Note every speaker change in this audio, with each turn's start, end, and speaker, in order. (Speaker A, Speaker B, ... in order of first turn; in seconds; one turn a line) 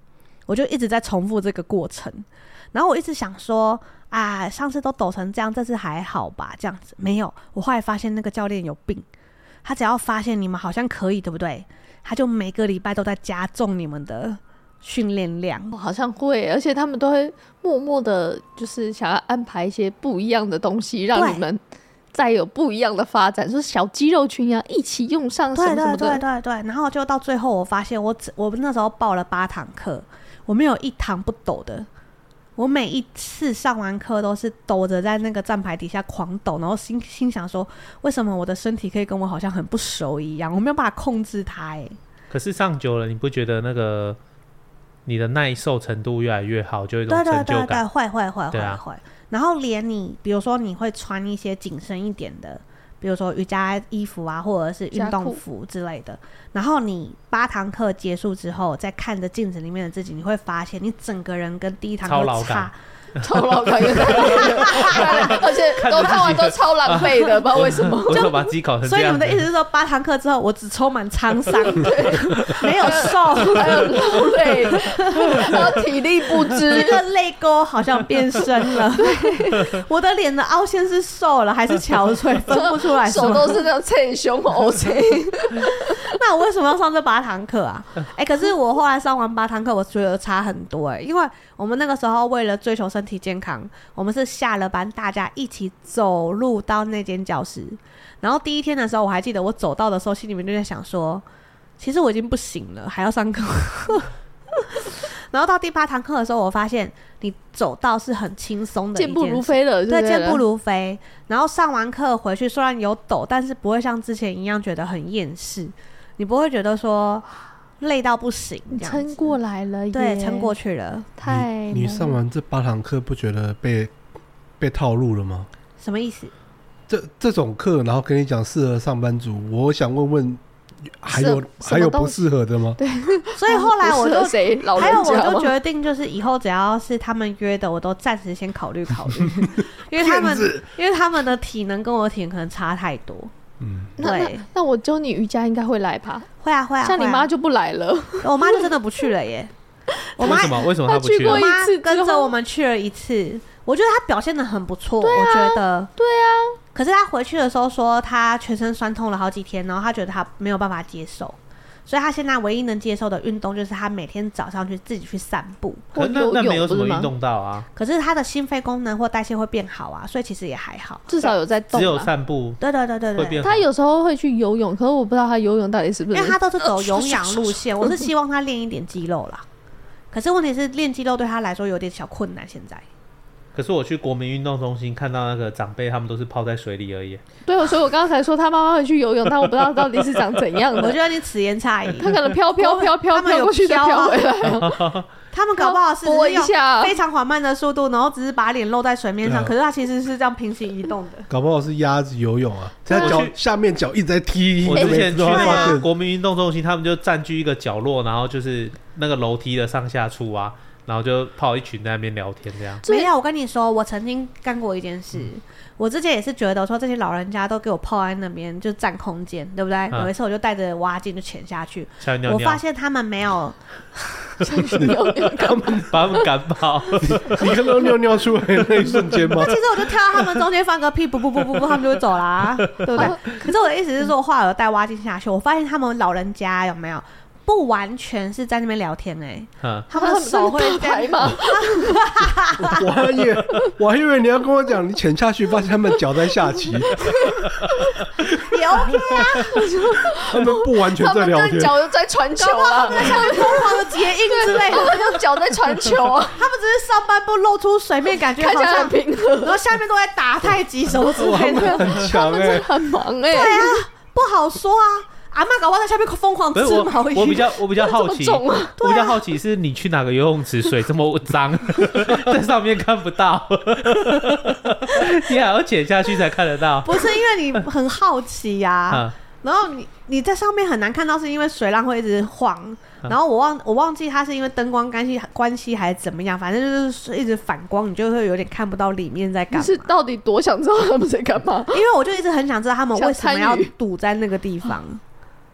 Speaker A: 0.5-9.1
Speaker A: 9.6-15.8
Speaker B: 15.7-21.6
Speaker A: 21.1-21.4
Speaker B: 22.1-26.2
Speaker A: 25.5-31.9
Speaker A: 32.6-42.0
Speaker C: 42.3-44.2
Speaker C: 45.1-47.8
Speaker A: 47.1-62.8
Speaker C: 48.5-48.8
Speaker B: 54.9-55.4
Speaker C: 62.0-69.5
Speaker B: 63.2-68.4
Speaker A: 64.2-65.4
Speaker A: 68.1-75.7
Speaker B: 71.7-77.0
Speaker A: 76.6-83.7
Speaker B: 79.0-79.7
Speaker B: 82.5-86.2
Speaker A: 85.8-101.2
Speaker A: 101.8-117.2
Speaker B: 109.0-110.4
Speaker A: 117.8-119.4
Speaker B: 118.7-120.5
Speaker A: 119.9-121.1
Speaker B: 121.2-122.2
Speaker D: 121.2-123.9
Speaker D: 124.6-125.5
Speaker A: 125.8-126.3
Speaker D: 126.9-130.4
Speaker D: 131.0-132.8
Speaker B: 131.1-135.5
Speaker A: 133.3-143.3
Speaker D: 140.0-140.6
Speaker D: 143.6-143.9
Speaker A: 144.0-144.4
Speaker B: 144.0-146.3
Speaker A: 146.4-147.3
Speaker B: 146.8-148.7
Speaker A: 148.2-149.5
Speaker B: 150.2-152.3
Speaker A: 150.2-155.9
Speaker C: 150.2-151.5
Speaker B: 155.0-156.6
Speaker A: 156.7-165.9
Speaker B: 165.9-167.1
Speaker C: 165.9-167.7
Speaker A: 167.8-171.3
Speaker B: 171.1-172.1
Speaker C: 171.7-172.6
Speaker A: 172.6-173.4
Speaker C: 173.2-173.7
Speaker B: 173.4-178.0
Speaker A: 176.1-179.4
Speaker A: 180.1-182.8
Speaker C: 183.5-187.2
Speaker B: 187.4-191.0
Speaker A: 190.8-194.3
Speaker B: 192.0-194.8
Speaker C: 194.4-195.1
Speaker A: 195.3-201.3
Speaker B: 195.6-196.9
Speaker D: 201.3-205.9
Speaker B: 202.9-203.2
Speaker C: 202.9-203.3
Speaker C: 204.6-212.8
Speaker B: 204.7-205.1
Speaker A: 205.2-205.8
Speaker B: 212.8-213.1
Speaker A: 212.8-224.3
Speaker C: 222.0-222.6
Speaker B: 224.4-226.3
Speaker D: 224.7-225.9
Speaker C: 225.9-227.6
Speaker D: 227.0-229.6
Speaker A: 229.3-242.9
Speaker C: 232.6-233.2
Speaker B: 232.8-233.5
Speaker C: 239.6-239.9
Speaker B: 239.9-242.1
Speaker D: 242.6-247.1
Speaker B: 247.0-248.1
Speaker A: 248.4-249.8
Speaker B: 249.0-256.4
Speaker D: 250.3-251.8
Speaker A: 252.4-255.4
Speaker A: 256.3-262.1
Speaker B: 258.4-259.6
Speaker D: 261.1-262.9
Speaker B: 261.3-263.8
Speaker A: 263.3-267.6
Speaker C: 266.6-277.2
Speaker B: 267.8-268.8
Speaker A: 268.8-269.2
Speaker A: 276.8-289.9
Speaker B: 289.5-291.8
Speaker A: 291.7-295.0
Speaker B: 293.0-293.7